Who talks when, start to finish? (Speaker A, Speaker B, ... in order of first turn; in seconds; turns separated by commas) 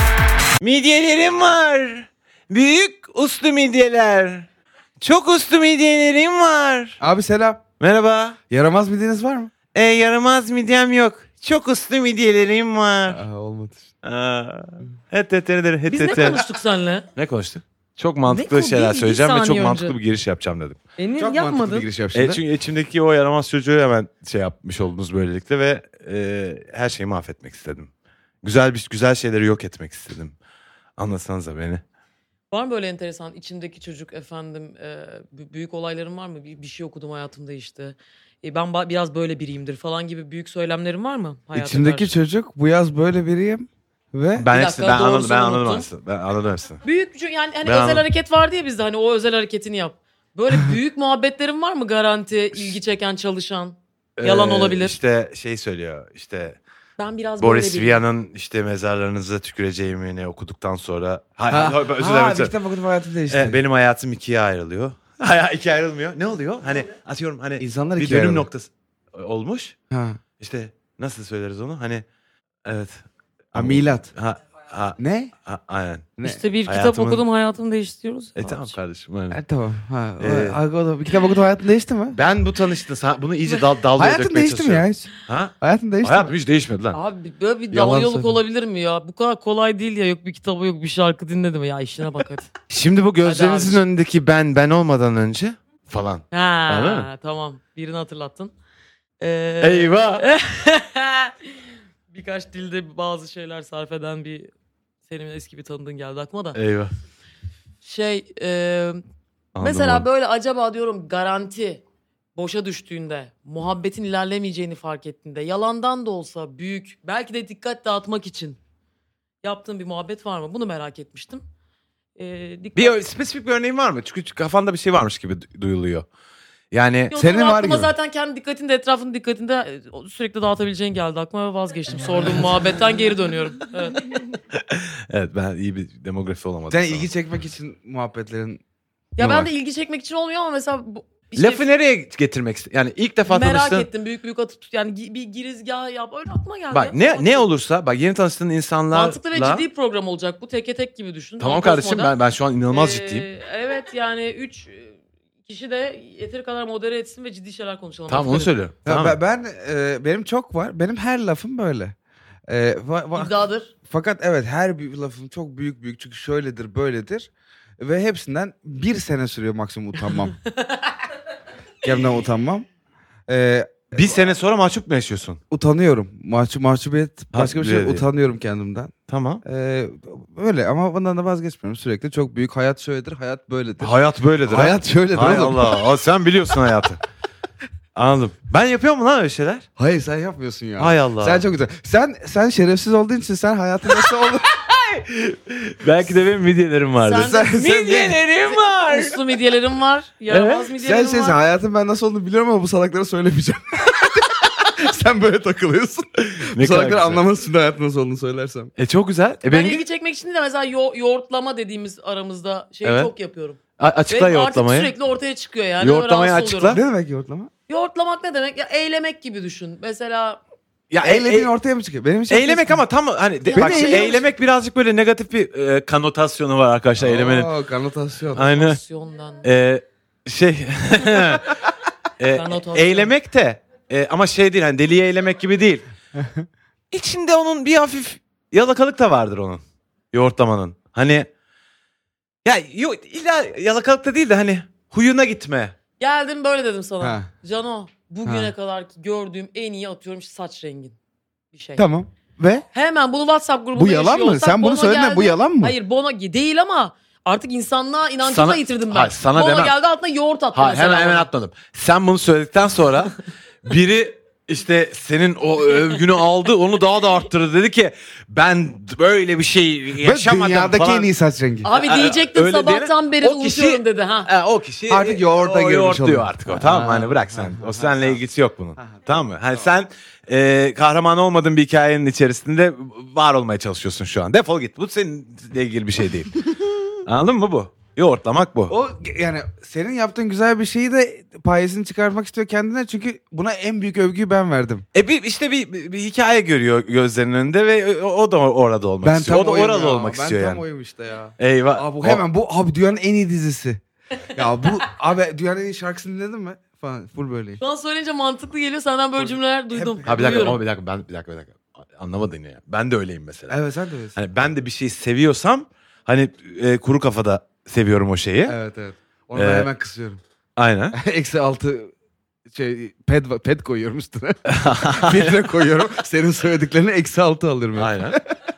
Speaker A: 0.6-4.5, Speaker A: 5.0-7.0, Speaker B: 7.0-7.6, Speaker A: 7.8-8.4, Speaker B: 8.5-9.5, Speaker A: 9.7-13.2, Speaker B: 13.1-13.9, Speaker A: 14.0-16.4, Speaker C: 15.9-17.1, Speaker A: 17.1-20.8, Speaker C: 18.3-20.0, Speaker C: 21.0-21.9, Speaker B: 21.2-22.4, Speaker A: 22.1-27.9, Speaker A: 28.4-30.3, Speaker A: 31.0-31.8, Speaker C: 32.5-42.1, Speaker B: 41.5-44.5, Speaker A: 44.4-46.8, Speaker C: 44.5-45.9, Speaker C: 46.8-55.0, Speaker A: 47.6-48.0, Speaker A: 54.2-56.6, Speaker C: 57.0-58.0, Speaker A: 57.4-62.5, Speaker B: 61.5-63.6, Speaker A: 63.3-69.7, Speaker B: 67.6-68.5, Speaker B: 69.9-70.2, Speaker A: 70.4-72.0, Speaker A: 72.6-76.1, Speaker B: 73.5-74.1, Speaker B: 75.0-75.3, Speaker C: 76.2-78.7, Speaker A: 76.7-77.2, Speaker A: 78.4-79.4, Speaker B: 79.3-82.2, Speaker A: 80.2-80.6, Speaker A: 82.1-87.0, Speaker B: 83.9-86.3, Speaker C: 86.9-92.5, Speaker A: 87.7-88.3, Speaker A: 92.7-97.1, Speaker C: 93.2-93.8, Speaker C: 96.3-98.5, Speaker C: 99.2-101.5, Speaker A: 99.6-100.2, Speaker C: 102.1-104.5, Speaker C: 105.1-106.6, Speaker A: 106.5-106.9, Speaker C: 107.8-109.0, Speaker A: 109.5-110.0, Speaker C: 109.6-111.8, Speaker C: 112.3-118.6, Speaker C: 119.4-121.4, Speaker C: 122.2-123.0, Speaker A: 122.8-126.0, Speaker A: 126.7-127.1, Speaker C: 127.1-134.0, Speaker B: 127.1-127.9, Speaker A: 134.5-137.1, Speaker B: 136.7-138.6, Speaker C: 139.2-141.7, Speaker B: 139.2-139.5, Speaker A: 141.4-143.9, Speaker C: 143.3-147.4, Speaker A: 146.7-149.6, Speaker C: 148.9-152.1, Speaker A: 151.4-153.2, Speaker C: 152.7-158.5, Speaker A: 158.1-159.2, Speaker B: 158.8-161.9, Speaker B: 162.5-170.4, Speaker C: 163.2-163.7, Speaker C: 170.5-170.9, Speaker B: 171.8-172.7, Speaker B: 173.3-174.2, Speaker A: 173.9-175.4, Speaker B: 175.5-178.9, Speaker A: 177.3-178.0, Speaker A: 179.1-179.4, Speaker B: 179.4-183.9, Speaker A: 183.8-187.0, Speaker B: 184.4-185.8, Speaker A: 187.9-189.7, Speaker B: 189.8-194.4, Speaker A: 190.8-191.4, Speaker A: 194.0-199.2, Speaker C: 197.0-201.3, Speaker B: 197.2-198.2, Speaker A: 200.3-200.7, Speaker B: 200.8-208.7, Speaker A: 206.2-207.2, Speaker A: 208.8-209.8, Speaker C: 209.4-216.8, Speaker A: 212.8-213.1, Speaker A: 213.8-214.9, Speaker A: 215.8-216.8, Speaker B: 216.7-217.5, Speaker C: 217.7-220.4, Speaker A: 220.9-221.5, Speaker B: 221.0-222.8, Speaker A: 222.3-227.5, Speaker C: 223.4-224.2, Speaker B: 223.5-224.2, Speaker B: 227.0-228.4, Speaker C: 228.3-229.4, Speaker A: 228.3-228.8, Speaker A: 229.4-231.6, Speaker A: 232.2-235.8, Speaker C: 232.3-233.1, Speaker A: 236.9-241.3, Speaker A: 242.4-245.7, Speaker C: 246.0-250.9, Speaker B: 247.0-247.3, Speaker B: 248.2-248.5, Speaker C: 251.5-251.8, Speaker B: 251.8-252.6, Speaker C: 252.7-261.3, Speaker B: 253.7-255.7, Speaker A: 258.2-259.7, Speaker A: 260.5-271.1, Speaker B: 270.0-271.7, Speaker C: 271.6-274.3, Speaker A: 271.7-286.5, Speaker B: 274.9-278.2, Speaker B: 278.8-279.0, Speaker A: 287.0-288.7, Speaker B: 288.7-294.9, Speaker A: 294.9-300.6, Speaker B: 299.0-303.8, Speaker A: 301.4-302.2, Speaker B: 304.3-307.6, Speaker C: 307.6-310.6, Speaker B: 309.2-310.6, Speaker A: 310.0-313.6, Speaker B: 313.5-314.2, Speaker A: 314.1-318.6, Speaker B: 318.4-320.2, Speaker A: 319.3-319.7, Speaker A: 320.6-321.0, Speaker B: 320.9-321.9, Speaker B: 322.5-328.3, Speaker A: 324.5-325.5, Speaker A: 327.8-328.2